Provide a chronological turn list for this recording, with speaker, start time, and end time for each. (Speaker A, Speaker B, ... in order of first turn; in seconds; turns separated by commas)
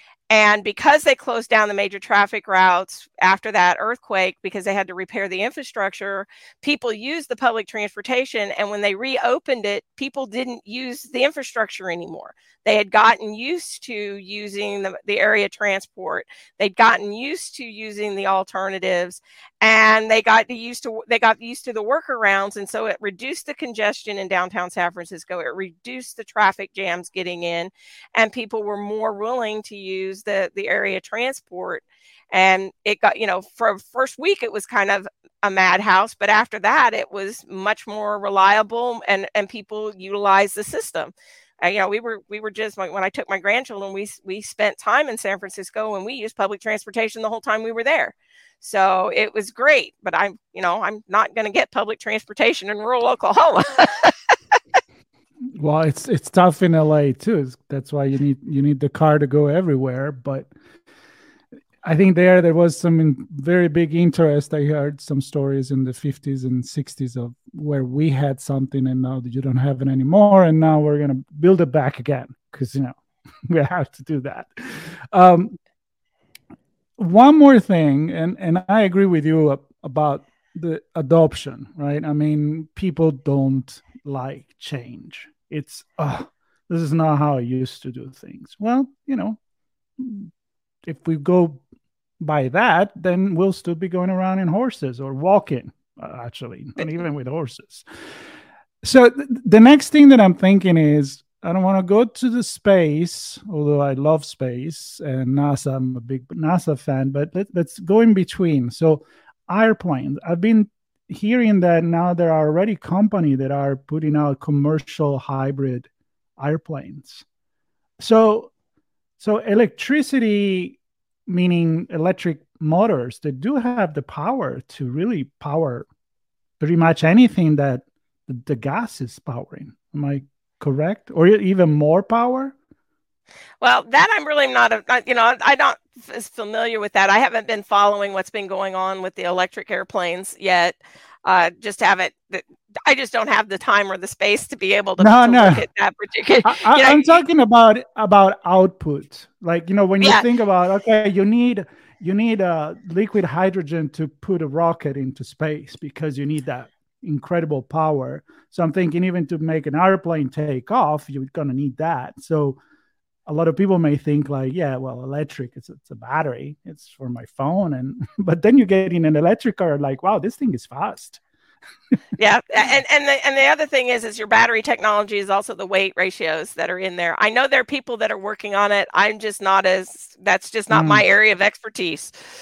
Speaker A: 0.3-54.1, Speaker B: 55.6-60.5, Speaker B: 61.8-73.0, Speaker B: 73.5-75.6, Speaker B: 77.0-89.4, Speaker B: 90.0-90.3, Speaker B: 90.8-91.6, Speaker B: 92.2-97.9, Speaker B: 98.8-117.2, Speaker B: 118.0-118.5, Speaker B: 119.2-125.9, Speaker B: 126.6-132.6, Speaker A: 133.6-147.2, Speaker B: 145.0-145.7, Speaker B: 146.4-162.6, Speaker A: 150.0-150.3, Speaker B: 163.3-171.2, Speaker A: 172.2-182.1, Speaker B: 180.7-181.1